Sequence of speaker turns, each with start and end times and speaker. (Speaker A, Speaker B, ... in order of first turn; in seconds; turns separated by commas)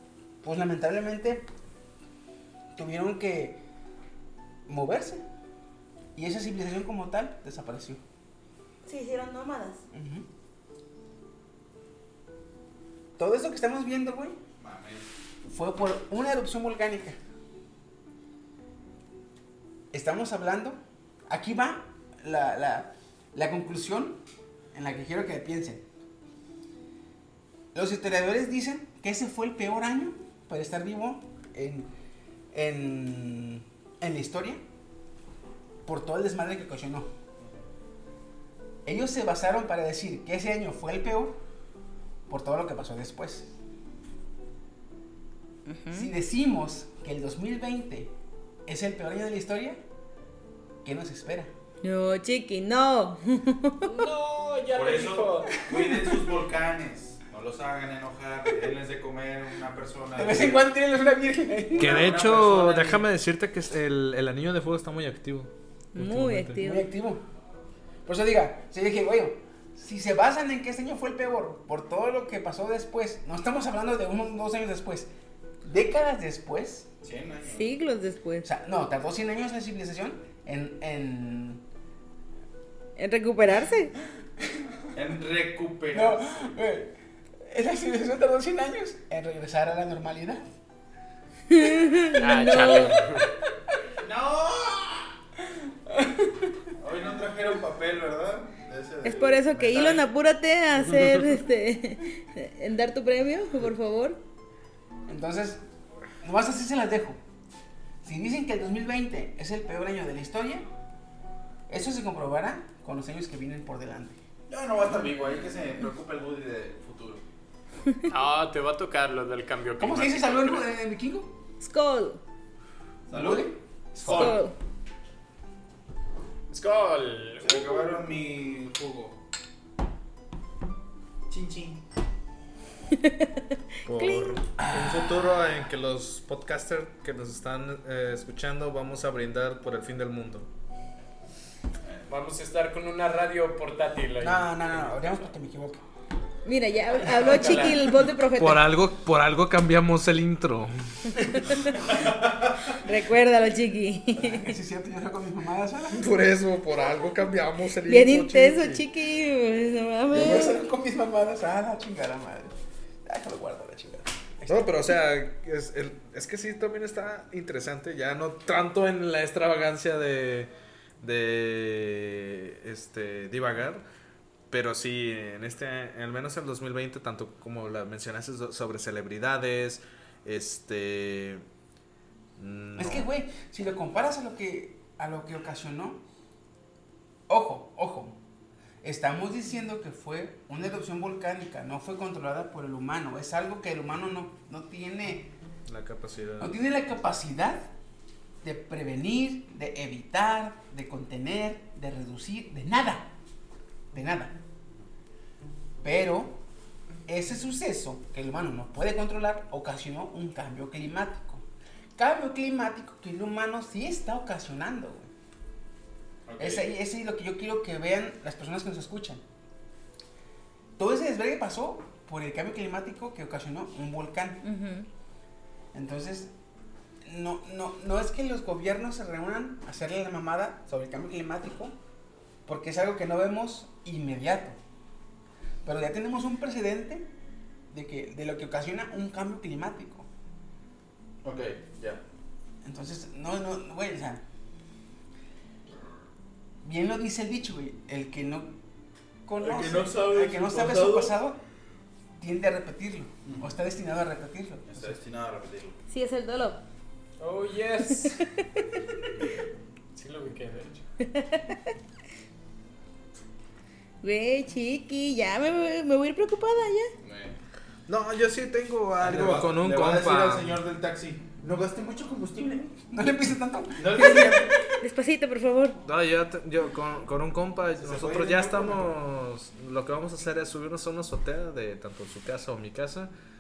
Speaker A: 0.4-1.5, Speaker A: 2.8-3.6, Speaker A: 4.7-5.2, Speaker A: 6.2-8.0, Speaker B: 8.8-9.8, Speaker A: 9.9-10.3, Speaker A: 13.2-14.4, Speaker C: 14.6-15.1, Speaker A: 15.5-17.2, Speaker A: 19.9-24.2, Speaker A: 24.7-25.8, Speaker A: 27.7-31.9, Speaker A: 32.5-34.6, Speaker A: 35.9-37.1, Speaker A: 38.9-41.4, Speaker A: 42.3-43.5, Speaker B: 45.7-46.1, Speaker A: 45.9-48.1, Speaker A: 48.7-49.8, Speaker A: 50.8-51.5, Speaker B: 51.8-53.9, Speaker D: 53.9-55.6, Speaker C: 54.7-60.7, Speaker A: 55.6-56.1, Speaker A: 60.2-62.1, Speaker C: 61.8-63.0, Speaker E: 61.8-66.6, Speaker B: 65.9-66.9, Speaker A: 66.6-67.2, Speaker A: 68.1-75.1, Speaker A: 75.6-76.9, Speaker C: 77.0-77.7, Speaker B: 77.5-78.5, Speaker A: 78.4-81.6, Speaker B: 83.0-83.9, Speaker C: 84.9-86.3, Speaker A: 85.9-86.9, Speaker A: 87.4-90.5, Speaker B: 91.5-93.0, Speaker D: 92.2-93.3, Speaker C: 94.0-95.1, Speaker A: 95.9-96.5, Speaker C: 96.8-100.1, Speaker B: 99.0-104.2, Speaker A: 105.1-105.6, Speaker A: 106.2-107.2, Speaker A: 108.0-110.7, Speaker A: 111.7-114.2, Speaker C: 114.5-117.2, Speaker D: 118.1-120.7, Speaker A: 119.8-121.3, Speaker B: 121.6-122.2, Speaker C: 123.1-123.5, Speaker A: 123.1-124.4, Speaker C: 124.0-124.3, Speaker B: 124.0-124.5, Speaker D: 126.5-127.8, Speaker C: 127.4-129.2, Speaker C: 131.3-131.8, Speaker B: 133.0-134.4, Speaker E: 133.8-140.5, Speaker A: 134.6-135.1, Speaker D: 142.1-145.2, Speaker A: 144.2-145.8, Speaker B: 146.4-148.7, Speaker D: 147.0-147.9, Speaker E: 148.3-151.2, Speaker C: 151.9-152.4, Speaker B: 152.8-154.5, Speaker A: 154.2-156.1, Speaker E: 155.9-158.9, Speaker B: 157.9-160.6, Speaker A: 160.1-162.5, Speaker A: 163.1-164.8, Speaker E: 164.5-173.8, Speaker E: 174.5-181.4, Speaker E: 182.4-183.1, Speaker A: 182.8-186.0, Speaker A: 187.3-188.2, Speaker A: 188.8-195.3, Speaker E: 195.7-196.6, Speaker A: 196.4-197.7, Speaker A: 198.4-203.1, Speaker A: 203.9-204.3, Speaker A: 205.8-206.4, Speaker A: 207.1-211.4, Speaker A: 212.0-215.1, Speaker C: 216.3-216.7, Speaker A: 216.4-219.2, Speaker A: 220.8-224.4, Speaker B: 224.4-224.9, Speaker A: 225.7-226.3, Speaker A: 227.1-231.8, Speaker A: 232.5-234.6, Speaker A: 235.6-237.1, Speaker A: 237.7-240.1, Speaker C: 241.2-242.0, Speaker A: 242.6-244.2, Speaker A: 246.6-248.5, Speaker A: 249.3-251.4, Speaker C: 249.4-251.2, Speaker A: 252.2-254.9, Speaker C: 253.2-253.5, Speaker C: 254.7-255.8, Speaker B: 255.9-256.6, Speaker D: 257.2-258.2, Speaker B: 257.9-258.6, Speaker D: 259.9-260.8, Speaker B: 261.0-261.7, Speaker B: 264.0-266.9, Speaker C: 267.0-267.4, Speaker E: 267.9-270.6, Speaker C: 269.0-272.8, Speaker A: 272.9-274.6, Speaker C: 273.8-274.6, Speaker B: 274.8-275.8, Speaker E: 275.8-283.1, Speaker C: 277.8-278.9